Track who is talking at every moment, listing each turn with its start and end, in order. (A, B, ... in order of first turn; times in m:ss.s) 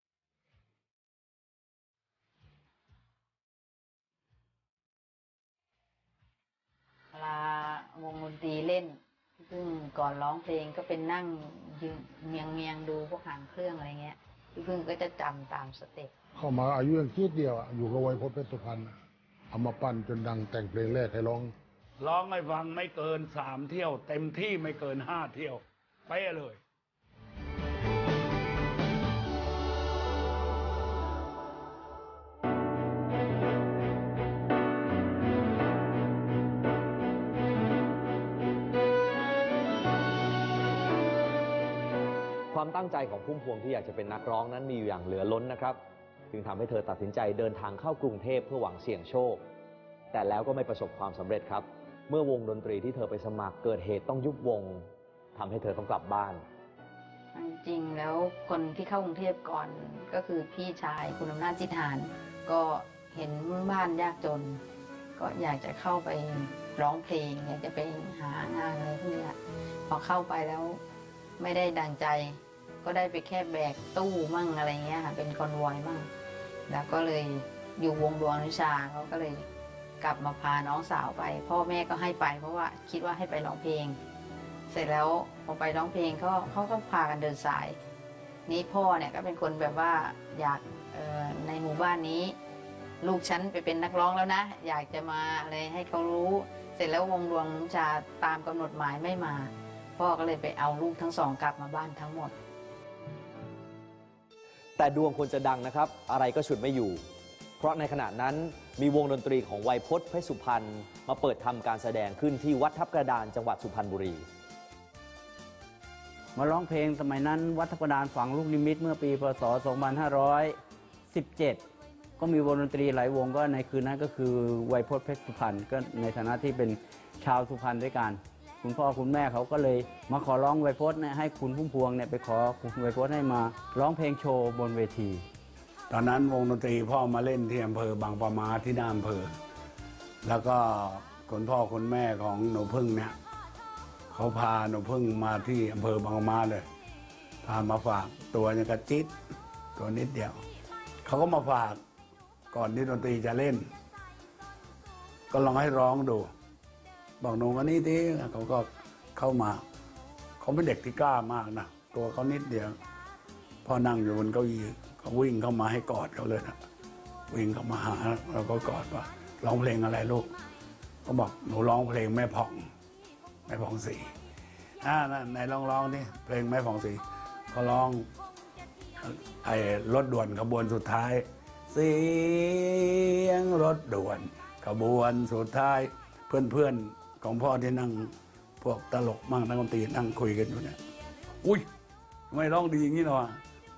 0:07.1-0:16.1 A
0:16.3-0:18.9 B
0:19.5-0:21.5 B
0:22.0-0:26.6 C
0:42.5-0:45.8 D
0:46.3-0:49.4 D
0:50.1-0:56.4 D
0:57.3-1:04.6 A
1:05.2-1:09.4 A
1:09.9-1:10.8 A
1:11.4-1:16.1 A
1:16.7-1:19.5 A
1:20.0-1:24.0 A
1:24.7-1:27.8 A
1:28.5-1:32.4 A
1:33.0-1:42.3 A
1:44.8-1:47.0 D
1:47.6-1:54.2 D
1:56.3-2:00.6 E
2:01.1-2:01.6 E
2:02.2-2:15.2 E
2:15.9-2:19.3 C
2:20.2-2:23.1 C
2:24.1-2:26.6 C
2:27.4-2:29.1 C
2:29.8-2:30.4 C
2:31.0-2:31.8 C
2:32.5-2:33.6 C
2:35.3-2:36.3 C
2:37.2-2:39.6 C
2:40.4-2:42.8 C
2:43.6-2:46.6 C
2:47.3-2:50.3 C
2:51.0-2:52.6 C
2:53.5-2:54.1 C
2:54.8-2:57.0 C
2:57.5-2:58.1 C
2:59.0-3:10.8 C
3:12.3-3:13.4 C